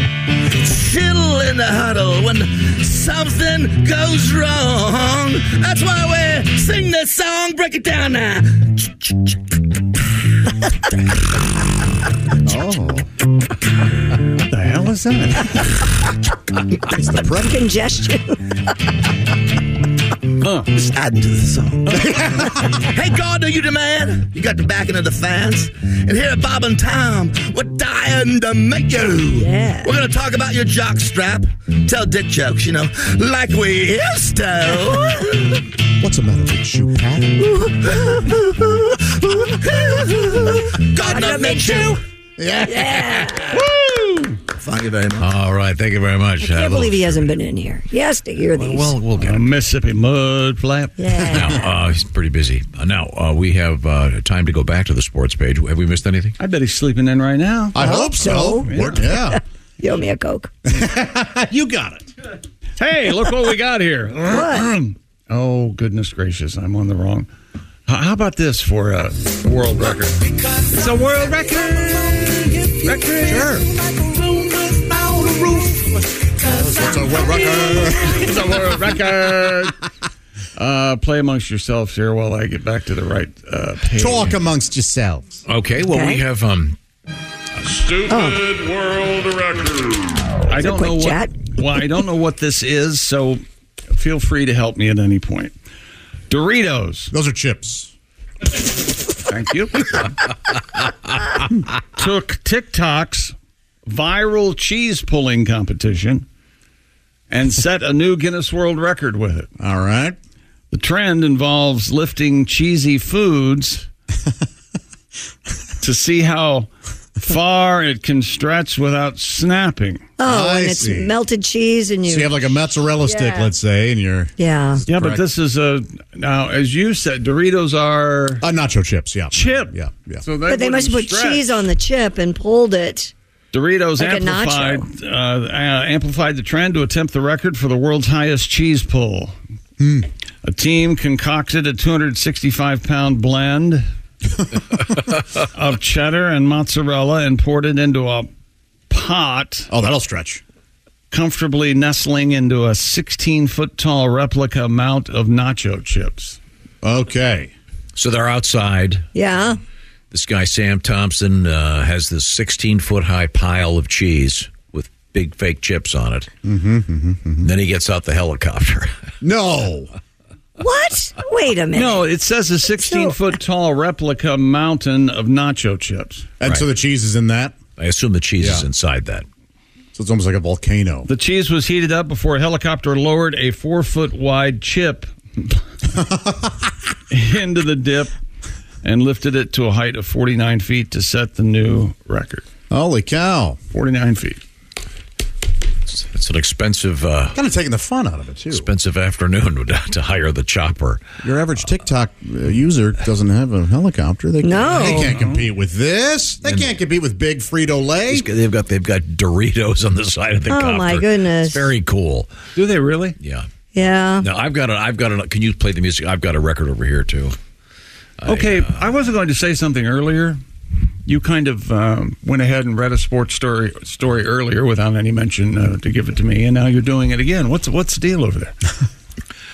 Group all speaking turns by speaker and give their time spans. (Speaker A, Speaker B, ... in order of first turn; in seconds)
Speaker A: 0.6-9.4, 20.7-35.6, 37.4-42.0, 44.5-45.3
Speaker B: 12.4-13.1, 16.9-17.6, 21.9-22.7, 36.0-37.4, 42.4-43.4, 57.8-59.4, 60.7-62.1, 73.2-73.7, 74.8-75.9, 76.6-78.1, 84.0-85.4, 97.1-97.9, 109.6-110.2, 120.3-121.1, 122.1-125.3, 128.4-130.3, 139.8-140.1, 149.7-150.4, 156.8-157.5, 166.4-167.5, 169.2-169.9, 176.4-177.6, 178.4-178.7, 179.9-181.1, 185.9-186.7, 192.7-193.6, 197.3-198.7, 201.2-208.3
Speaker C: 14.5-15.6, 20.4-20.7, 43.6-44.4, 49.2-51.0, 56.4-57.8, 58.6-59.1, 62.8-67.3, 67.9-73.6, 78.1-79.8, 80.6-84.4, 87.6-88.0, 88.6-89.5, 90.5-93.4, 93.9-95.5, 96.3-97.1, 99.3-100.0, 101.7-103.3, 103.9-106.3, 107.3-109.5, 110.7-113.9, 115.8-120.1, 124.9-128.5, 129.3-131.6, 133.5-139.4, 140.4-143.9, 145.4-148.3, 148.9-149.7, 151.1-156.4, 171.7-176.3, 181.1-185.1, 187.1-188.2, 188.8-192.4, 193.7-194.4, 204.7-205.5, 212.6-213.2, 218.2-220.4, 221.1-228.6
Speaker D: 17.2-18.7, 29.3-30.0, 41.0-42.0, 42.6-43.7, 46.4-49.0, 51.0-51.7, 57.8-60.6, 64.3-64.7, 85.8-86.2, 88.1-88.5, 90.5-91.4, 120.2-122.5, 123.0-123.5, 124.4-124.9, 130.4-133.1, 134.0-134.9, 159.2-159.6, 170.6-172.1, 172.7-173.2, 204.4-205.1, 210.5-211.7, 213.7-214.3
Speaker E: 45.2-47.3, 48.5-49.5, 51.3-56.4, 85.5-86.8, 157.9-159.1, 160.1-166.3, 167.4-168.9, 177.8-179.3, 195.9-197.4, 198.5-201.0, 206.4-206.8, 208.1-212.3, 213.2-213.5, 214.2-217.4, 218.2-218.8